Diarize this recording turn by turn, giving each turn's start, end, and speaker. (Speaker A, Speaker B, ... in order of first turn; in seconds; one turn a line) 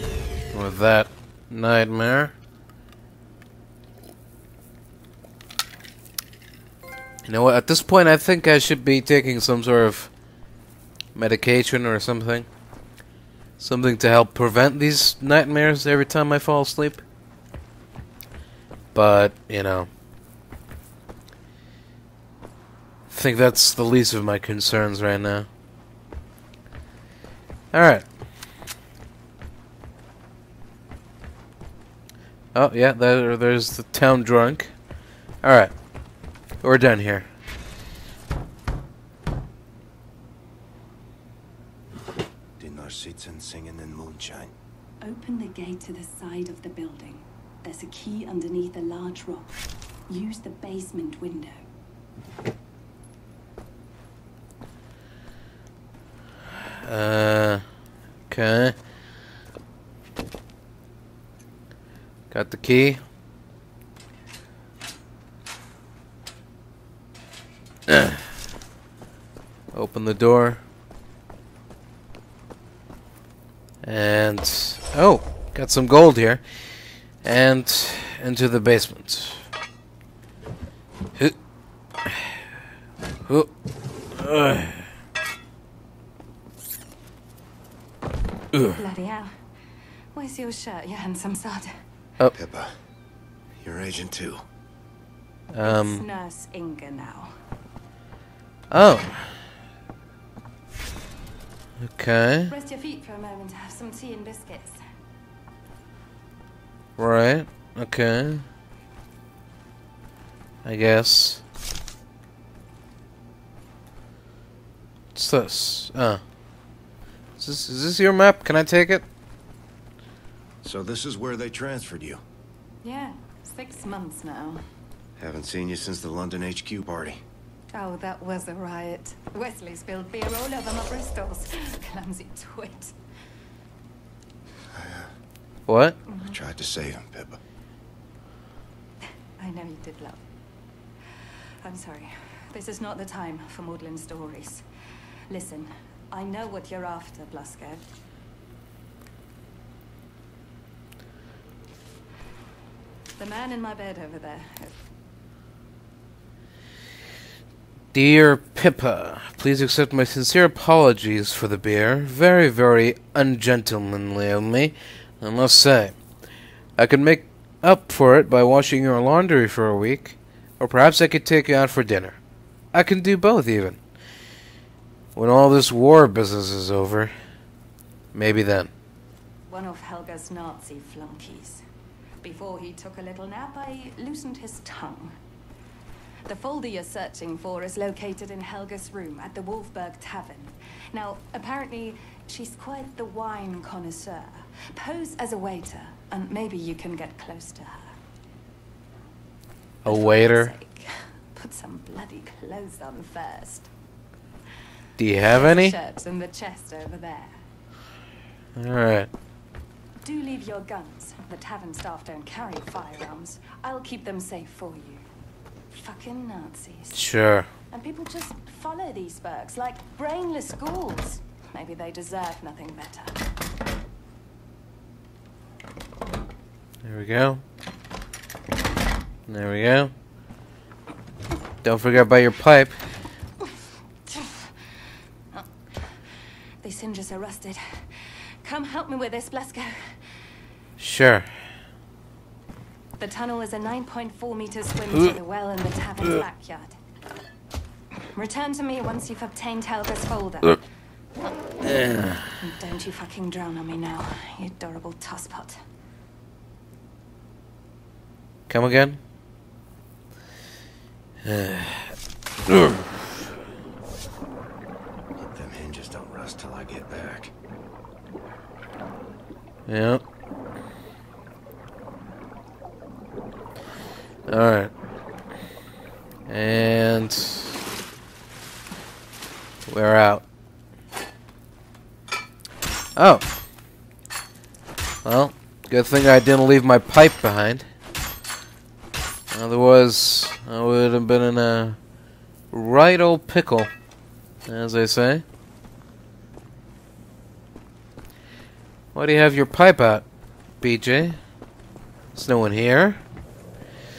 Speaker A: 0.5-2.3
Speaker A: 7.2-10.1
Speaker A: 11.1-12.5
Speaker A: 13.6-17.0
Speaker A: 18.9-19.9
Speaker A: 23.1-25.5
Speaker A: 27.7-28.1
Speaker A: 32.5-34.8
Speaker A: 35.4-35.7
Speaker A: 36.6-37.3
Speaker B: 42.6-44.5
Speaker C: 45.0-51.6
Speaker A: 56.8-57.6
Speaker A: 58.3-58.8
Speaker A: 62.3-63.0
Speaker A: 67.9-68.2
Speaker A: 69.7-70.6
Speaker A: 73.8-76.7
Speaker A: 77.2-79.4
Speaker A: 82.0-82.3
Speaker A: 83.2-83.5
Speaker A: 84.1-84.8
Speaker C: 88.7-89.4
Speaker C: 90.1-91.8
Speaker B: 92.3-92.8
Speaker B: 93.6-94.4
Speaker A: 95.5-96.0
Speaker C: 95.6-97.3
Speaker A: 98.7-99.4
Speaker A: 101.8-102.5
Speaker C: 102.5-104.8
Speaker A: 107.0-108.4
Speaker A: 110.6-111.4
Speaker A: 115.1-116.2
Speaker A: 117.4-119.0
Speaker B: 120.6-122.2
Speaker C: 122.8-124.7
Speaker B: 125.2-127.2
Speaker C: 127.7-132.9
Speaker B: 134.7-135.1
Speaker A: 135.7-136.0
Speaker C: 136.1-136.4
Speaker B: 136.3-137.4
Speaker C: 139.4-140.2
Speaker C: 141.6-144.7
Speaker C: 145.3-147.9
Speaker C: 153.2-154.8
Speaker A: 157.9-166.0
Speaker A: 166.8-172.2
Speaker A: 172.7-173.8
Speaker A: 175.2-177.1
Speaker A: 178.1-178.7
Speaker C: 179.5-181.6
Speaker C: 182.2-185.2
Speaker C: 186.2-198.0
Speaker A: 199.8-200.5
Speaker C: 199.8-203.7
Speaker A: 205.0-205.7
Speaker C: 205.2-207.4
Speaker A: 208.6-209.1
Speaker C: 210.0-215.1
Speaker C: 215.7-217.1
Speaker A: 216.9-217.5
Speaker C: 217.7-223.2
Speaker A: 226.8-227.4
Speaker A: 229.3-229.9
Speaker A: 231.6-232.8
Speaker C: 234.1-234.5
Speaker C: 236.6-240.1
Speaker A: 240.8-241.4
Speaker C: 243.0-246.8
Speaker C: 248.1-250.6
Speaker A: 251.7-252.2
Speaker C: 252.4-255.6
Speaker A: 258.5-259.0
Speaker A: 261.2-261.9
Speaker A: 262.5-262.8
Speaker B: 265.2-267.3
Speaker A: 269.7-270.0
Speaker A: 274.3-274.7
Speaker A: 276.3-277.6
Speaker A: 279.7-280.2
Speaker A: 282.9-283.2
Speaker A: 285.0-287.7
Speaker A: 289.3-291.8
Speaker A: 292.5-293.7
Speaker A: 294.4-295.2
Speaker A: 298.9-300.1
Speaker A: 300.6-301.2
Speaker A: 302.1-303.0